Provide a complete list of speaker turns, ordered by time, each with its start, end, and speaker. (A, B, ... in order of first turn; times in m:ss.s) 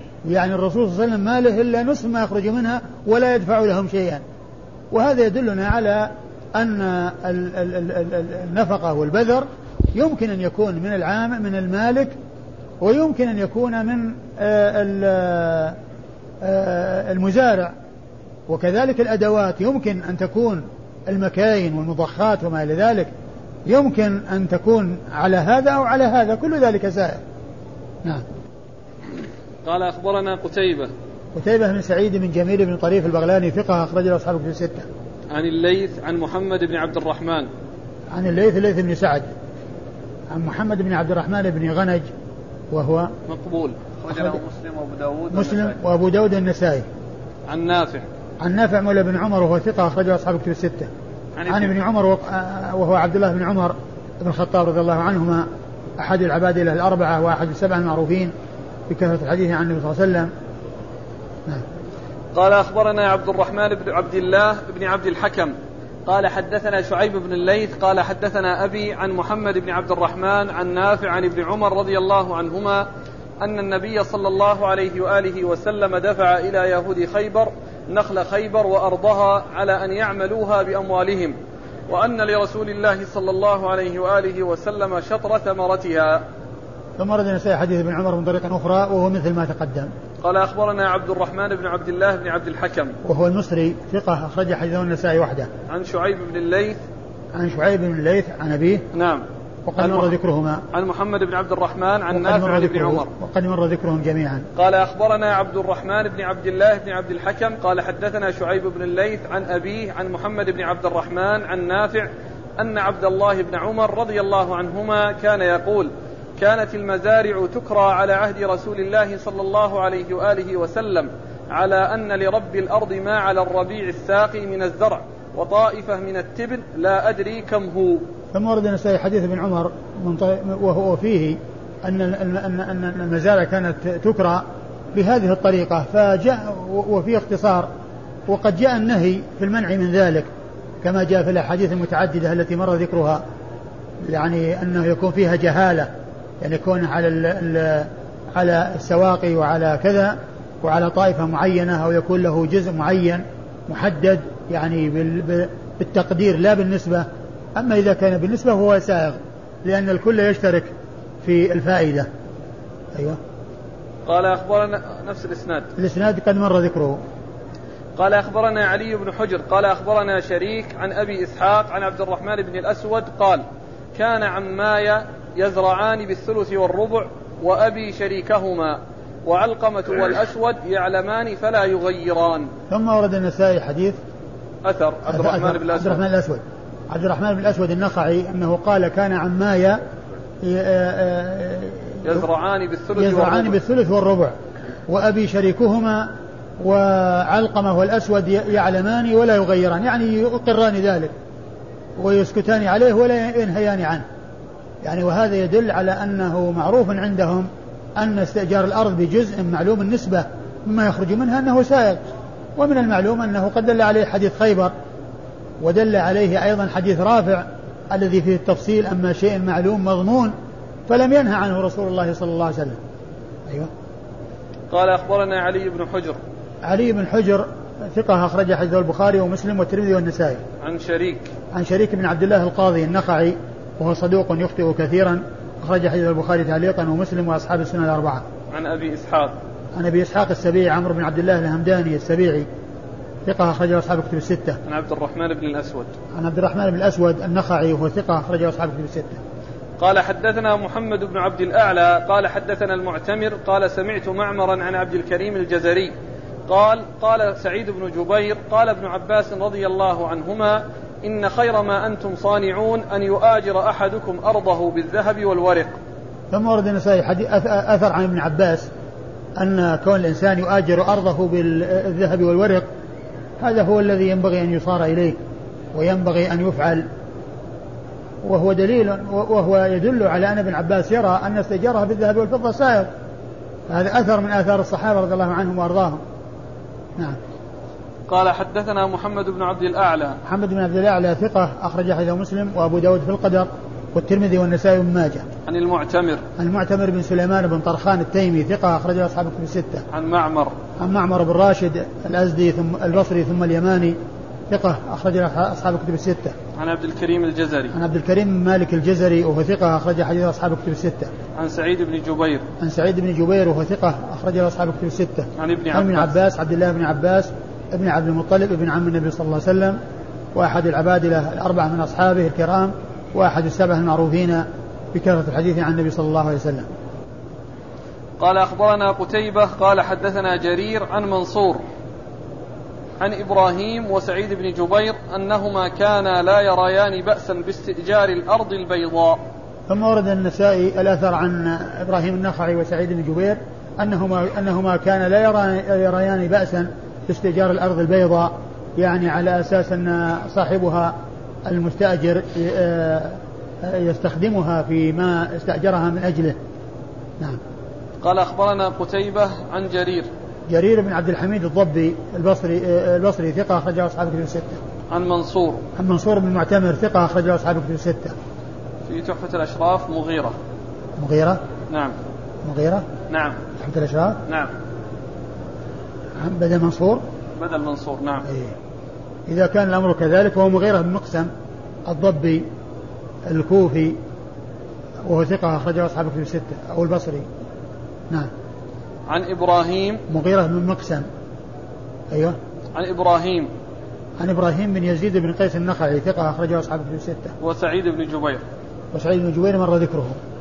0:00.2-0:04.2 A
0:04.9-0:12.1 A
0:12.8-0:15.8 A
0:16.4-0:17.7 A
0:18.5-0:23.1 A
0:23.6-0:27.2 A
0:29.6-0:30.9 B
0:31.3-0:34.9 A
0:35.3-0:37.5 B
0:38.1-0:39.3 A
0:40.3-0:42.1 A
0:42.7-0:43.1 A
0:43.3-0:45.8 B
0:45.3-0:46.8 A
0:47.5-0:48.0 B
0:48.4-0:50.9 A
0:51.4-0:51.7 B
0:51.5-0:55.4 A
0:56.0-0:58.3 A
0:58.9-1:00.3 A
1:02.3-1:05.5 B
1:06.0-1:12.9 B
1:13.4-1:21.3 B
1:21.9-1:26.2 B
1:27.0-1:29.9 A
1:30.2-1:33.0 B
1:33.0-1:35.5 A
1:35.7-1:36.8 B
1:37.3-1:38.8 A
1:38.9-1:39.2 B
1:39.6-1:40.6 A
1:39.8-1:40.1 B
1:40.7-1:43.1 B
1:42.1-1:44.4 A
1:44.6-2:08.0 B
2:08.3-2:17.7 A
2:18.3-2:20.3 A
2:20.8-2:23.2 A
2:24.0-2:25.9 A
2:26.4-2:40.7 A
2:41.2-2:42.1 A
2:42.9-2:43.2 A
2:44.0-2:45.7 B
2:45.8-2:47.0 A
2:48.0-2:53.4 B
2:53.9-3:02.5 B
3:02.7-3:04.0 A
3:04.6-3:06.0 B
3:05.1-3:09.8 A
3:10.4-3:12.2 A
3:12.0-3:13.6 B
3:13.0-3:14.3 A
3:14.9-3:21.1 A
3:22.0-3:24.0 A
3:24.8-3:32.0 A
3:32.6-3:34.7 A
3:35.6-3:40.3 A
3:40.9-3:42.8 A
3:44.7-3:46.2 B
3:46.6-3:50.4 A
3:50.6-3:51.3 B
3:51.5-3:58.2 A
3:58.5-3:59.3 B
3:59.7-4:02.5 A
4:03.2-4:04.6 A
4:04.6-4:05.9 B
4:06.1-4:09.2 A
4:09.8-4:15.9 B
4:16.5-4:25.7 B
4:26.3-4:28.7 A
4:29.4-4:32.6 A
4:33.4-4:35.2 A
4:35.7-4:36.8 A
4:38.2-4:42.9 A
4:43.7-4:46.0 A
4:48.1-4:50.2 B
4:50.2-4:55.2 A
4:55.5-4:56.2 B
4:56.4-4:59.8 A
4:59.9-5:00.5 B
5:00.8-5:04.0 A
5:04.5-5:06.3 A
5:06.6-5:07.7 B
5:07.7-5:11.1 A
5:11.4-5:12.4 B
5:12.6-5:19.8 A
5:15.4-5:16.1 B
5:20.3-5:26.6 A
5:28.2-5:31.6 B
5:33.0-5:39.2 B
5:39.7-5:50.9 A
5:51.4-5:56.4 A
5:58.0-6:00.1 B
6:00.5-6:04.6 A
6:04.9-6:05.6 B
6:05.8-6:08.1 A
6:08.9-6:10.3 B
6:11.0-6:11.4 A
6:11.7-6:12.0 B
6:12.4-6:12.8 A
6:13.1-6:13.4 B
6:13.6-6:14.2 A
6:14.2-6:14.5 B
6:16.2-6:17.0 A
6:17.4-6:18.3 B
6:18.2-6:18.5 A
6:19.3-6:21.3 A
6:21.8-6:22.4 A
6:23.2-6:24.0 A
6:25.0-6:27.3 A
6:29.1-6:30.0 B
6:30.1-6:31.0 A
6:32.1-6:32.4 A
6:32.7-6:33.5 B
6:34.2-6:37.3 A
6:37.4-6:38.4 B
6:38.9-6:40.2 A